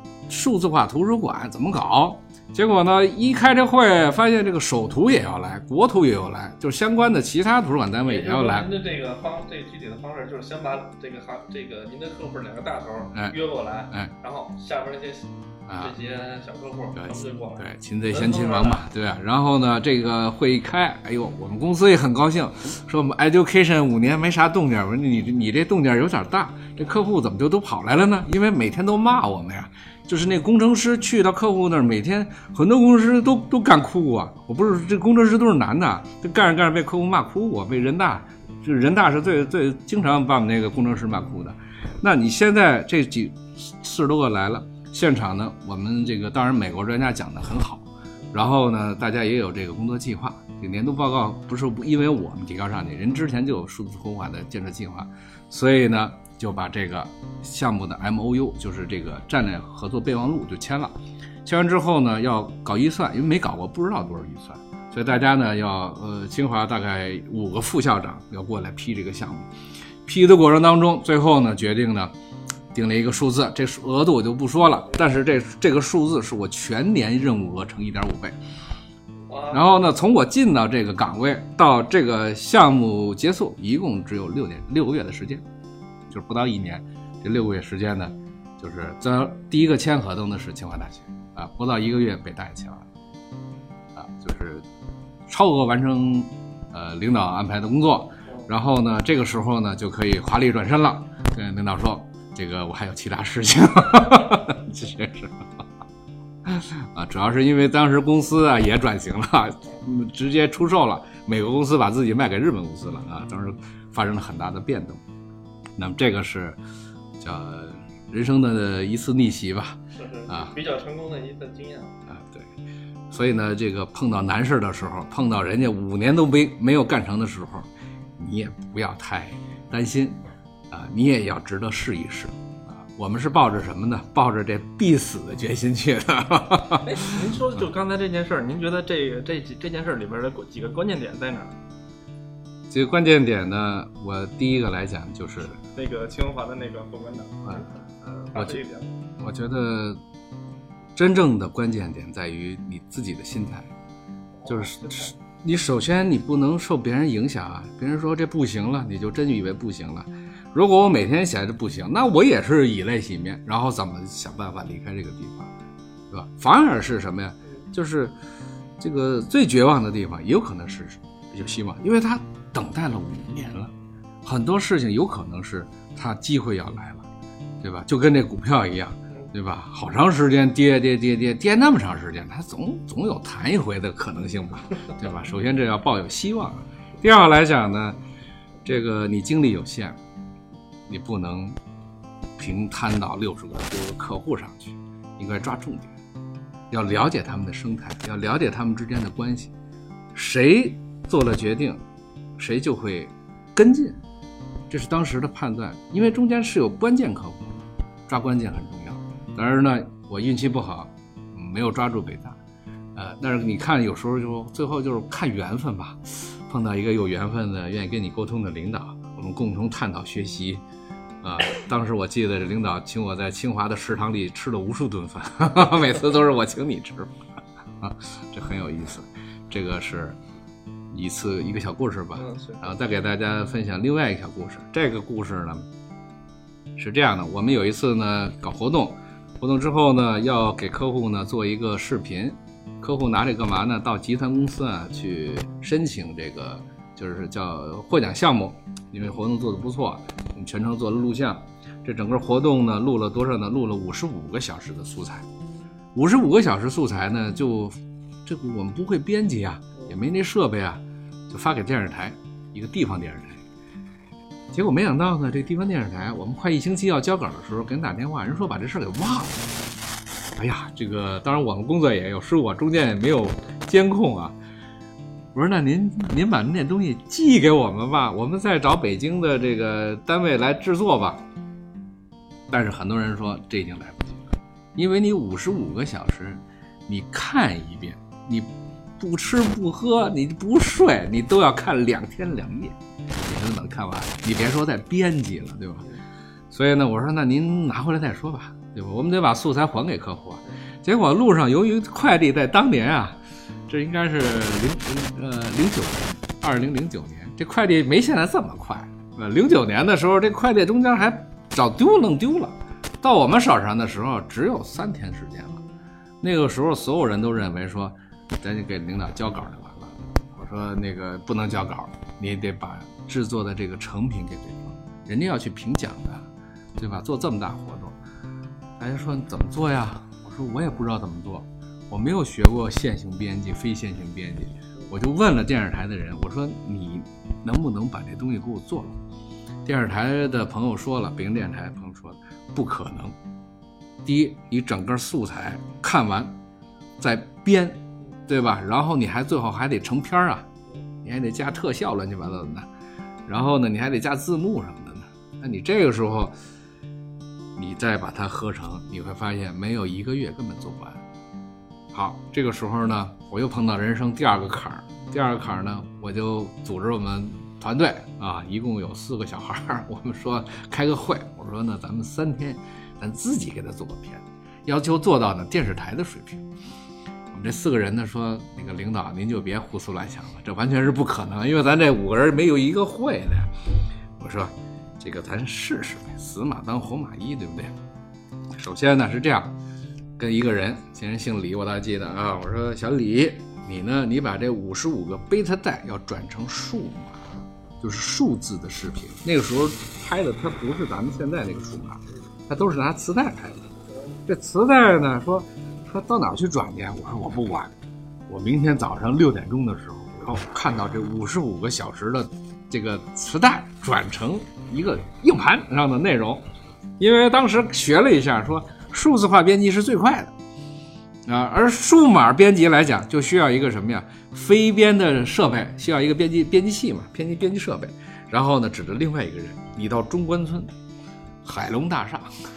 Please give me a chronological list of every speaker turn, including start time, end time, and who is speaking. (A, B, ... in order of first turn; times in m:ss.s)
0:00.3-0:08.7 A
0:08.1-0:15.3 B
0:15.7-0:16.0 A
0:15.8-0:18.8 B
0:16.9-1:09.5 A
1:10.0-1:12.1 A
1:12.7-1:18.4 A
1:19.3-1:19.6 B
1:19.5-1:25.4 A
1:26.1-1:32.9 A
1:34.0-1:34.6 A
1:35.3-1:45.5 A
1:46.5-1:55.0 A
1:55.8-1:56.6 A
1:57.2-2:00.5 A
2:00.0-2:01.9 B
2:02.1-2:02.5 A
2:03.1-2:07.7 A
2:08.2-2:17.3 A
2:16.8-2:21.5 B
2:22.7-2:25.6 A
2:25.7-2:28.9 B
2:28.3-2:28.6 A
2:29.2-2:30.0 A
2:31.0-2:33.7 A
2:34.4-2:35.1 B
2:34.5-2:45.5 A
2:46.1-2:48.2 A
2:48.8-2:53.7 A
2:54.2-2:57.0 A
2:57.6-3:08.0 A
3:08.6-3:10.0 A
3:10.9-3:11.6 A
3:12.4-3:15.9 A
3:16.7-3:19.5 A
3:20.1-3:21.8 A
3:22.4-3:24.0 A
3:24.7-3:32.4 A
3:33.0-3:40.6 A
3:41.2-3:47.1 A
3:47.8-3:50.2 A
3:50.9-3:55.7 A
3:52.2-3:52.6 B
3:56.8-4:15.2 A
4:16.0-4:23.4 A
4:24.5-4:29.4 A
4:30.4-4:34.4 A
4:35.3-4:41.2 A
4:42.5-4:55.9 A
4:56.5-5:03.2 A
5:03.7-5:15.6 A
5:16.2-5:26.3 A
5:26.8-5:28.0 A
5:28.8-5:39.0 A
5:39.6-5:43.2 A
5:44.0-5:46.4 A
5:47.0-5:50.5 A
5:51.0-5:52.7 A
5:53.3-5:56.3 A
5:57.6-6:01.0 A
6:01.9-6:16.4 A
6:17.3-6:23.5 A
6:24.2-6:27.7 A
6:28.6-6:29.5 A
6:30.2-6:37.2 A
6:37.8-6:43.6 A
6:44.3-6:47.7 A
6:48.3-6:56.4 A
6:57.0-7:00.3 A
7:01.3-7:10.7 A
7:11.4-7:12.3 A